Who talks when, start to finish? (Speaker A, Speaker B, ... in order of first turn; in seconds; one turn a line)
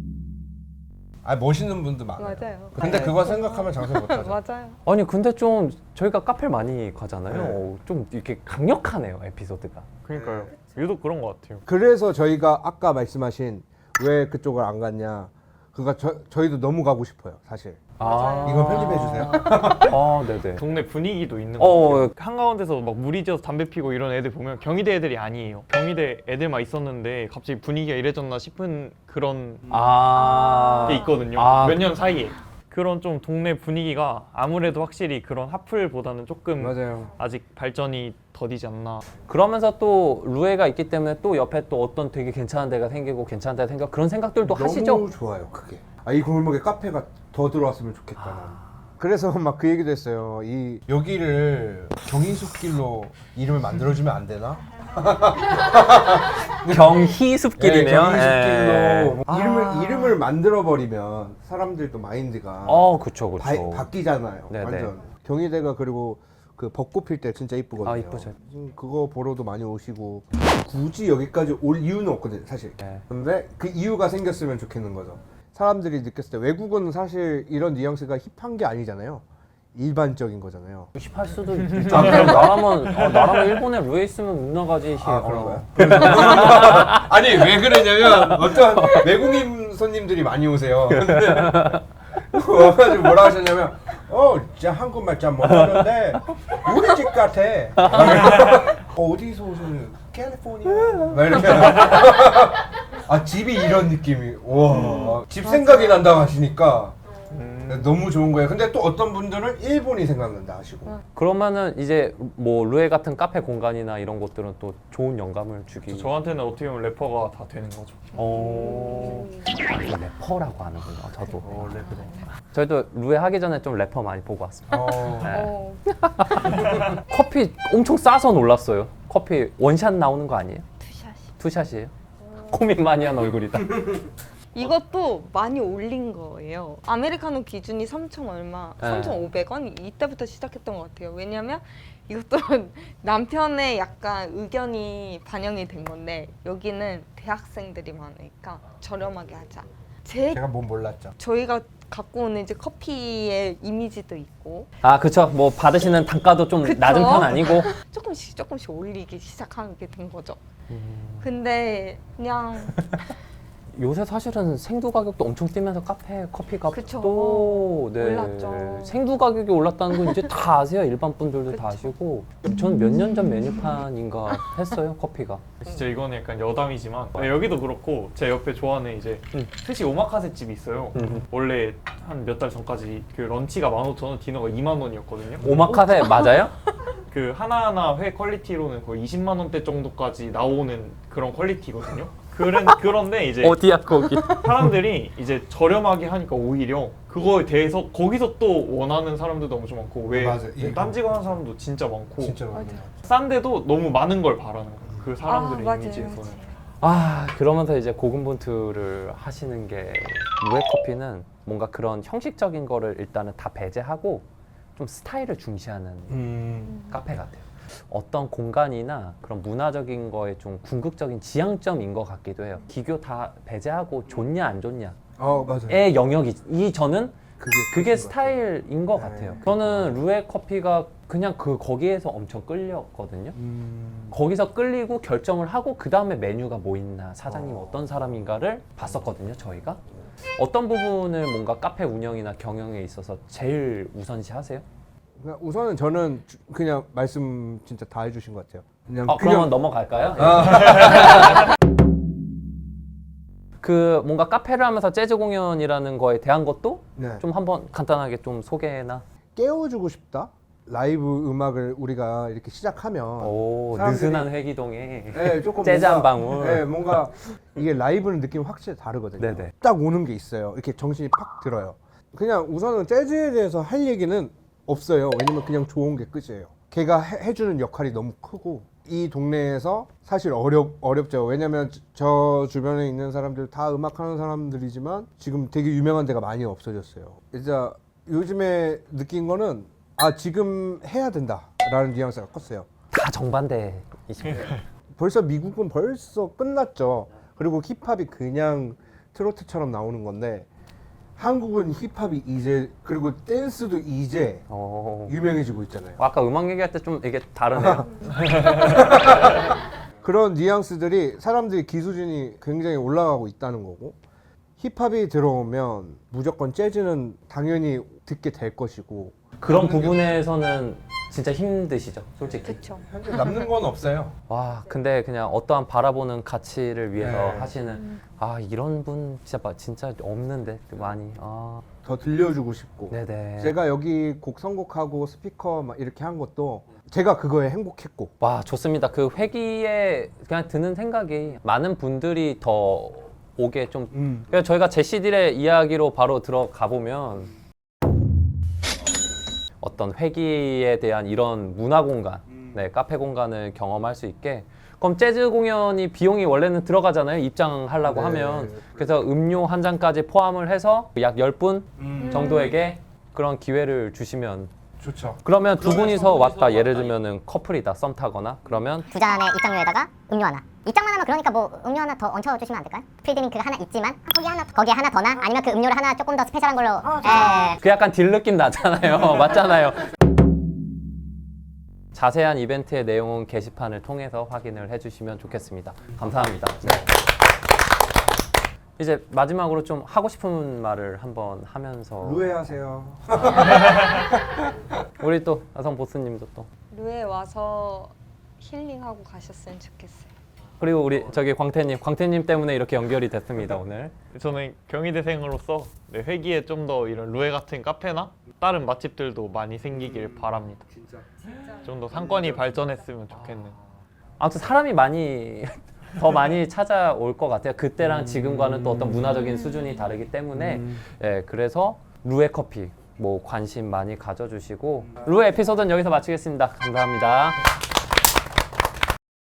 Speaker A: 1.2-4.4
Speaker B: 2.2-4.8
Speaker C: 2.8-3.2
Speaker C: 4.8-9.8
Speaker A: 7.3-7.6
Speaker D: 10.0-11.6
Speaker A: 10.1-10.5
Speaker A: 11.7-17.9
Speaker C: 18.0-20.6
Speaker B: 18.0-19.0
Speaker A: 18.4-20.0
Speaker D: 20.6-29.8
Speaker C: 21.6-22.1
Speaker C: 29.7-31.8
Speaker D: 30.8-39.0
Speaker A: 36.6-37.1
Speaker C: 39.2-45.1
Speaker A: 44.4-62.8
Speaker C: 48.2-48.8
Speaker C: 56.6-59.2
Speaker B: 59.5-60.1
Speaker C: 62.6-63.9
Speaker A: 63.4-80.9
Speaker C: 64.5-64.9
Speaker C: 67.8-68.3
Speaker C: 80.9-87.1
Speaker D: 81.6-83.5
Speaker A: 81.8-82.6
Speaker A: 85.0-107.0
Speaker C: 88.0-89.1
Speaker C: 91.0-91.8
Speaker C: 95.5-95.9
Speaker C: 97.8-98.6
Speaker B: 104.8-106.1
Speaker D: 107.3-107.9
Speaker A: 107.7-111.0
Speaker C: 111.1-116.1
Speaker D: 115.8-118.1
Speaker C: 118.2-130.6
Speaker B: 118.2-119.4
Speaker A: 121.4-122.1
Speaker A: 124.7-125.4
Speaker B: 125.3-125.8
Speaker B: 130.8-131.3
Speaker C: 131.4-131.9
Speaker B: 132.2-132.5
Speaker C: 132.5-134.1
Speaker B: 134.5-150.4
Speaker C: 138.8-139.2
Speaker A: 150.3-151.2
Speaker B: 151.2-154.7
Speaker C: 154.8-157.7
Speaker B: 156.6-160.4
Speaker C: 160.7-161.3
Speaker B: 161.2-162.8
Speaker C: 163.7-175.4
Speaker B: 166.7-169.0
Speaker B: 171.5-171.9
Speaker D: 175.6-185.8
Speaker C: 180.9-181.2
Speaker C: 185.4-186.5
Speaker B: 185.7-186.9
Speaker D: 187.1-193.6
Speaker C: 193.4-194.7
Speaker D: 194.1-202.4
Speaker A: 200.1-201.2
Speaker A: 202.2-202.9
Speaker B: 202.5-202.8
Speaker D: 203.0-206.4
Speaker B: 205.2-206.5
Speaker C: 206.8-225.0
Speaker A: 216.1-216.8
Speaker A: 225.2-225.9
Speaker C: 225.7-233.4
Speaker A: 227.4-230.0
Speaker A: 233.3-234.2
Speaker C: 234.1-239.8
Speaker A: 237.3-238.2
Speaker C: 240.3-244.6
Speaker A: 245.2-249.5
Speaker C: 249.1-251.3
Speaker A: 250.2-251.4
Speaker C: 253.6-259.0
Speaker A: 256.9-257.2
Speaker A: 259.4-264.3
Speaker C: 263.2-266.8
Speaker A: 265.1-292.7
Speaker C: 269.2-269.5
Speaker C: 292.9-294.5
Speaker A: 294.9-300.5
Speaker A: 301.2-304.4
Speaker C: 304.5-305.2
Speaker A: 305.1-306.0
Speaker C: 306.0-308.1
Speaker A: 307.5-314.0
Speaker A: 314.6-320.1
Speaker C: 319.4-322.6
Speaker A: 322.2-324.1
Speaker B: 322.4-323.4
Speaker C: 324.3-331.6
Speaker A: 326.9-327.5
Speaker A: 331.8-338.1
Speaker C: 332.9-333.6
Speaker C: 338.2-347.3
Speaker A: 343.9-344.3
Speaker C: 349.6-364.5
Speaker A: 357.8-359.0
Speaker A: 361.8-362.4
Speaker B: 362.1-362.5
Speaker A: 364.8-366.2
Speaker C: 365.2-368.9
Speaker D: 365.7-366.9
Speaker E: 368.9-377.6
Speaker C: 377.6-379.8
Speaker C: 381.9-386.9
Speaker C: 388.8-392.2
Speaker A: 392.0-394.4
Speaker C: 393.1-394.0
Speaker C: 394.9-396.5
Speaker B: 396.7-400.1
Speaker C: 400.6-403.9
Speaker D: 404.1-410.6
Speaker A: 409.8-411.2
Speaker D: 411.6-413.6
Speaker C: 413.1-413.5
Speaker C: 414.2-427.4
Speaker A: 417.8-419.3
Speaker A: 420.3-420.8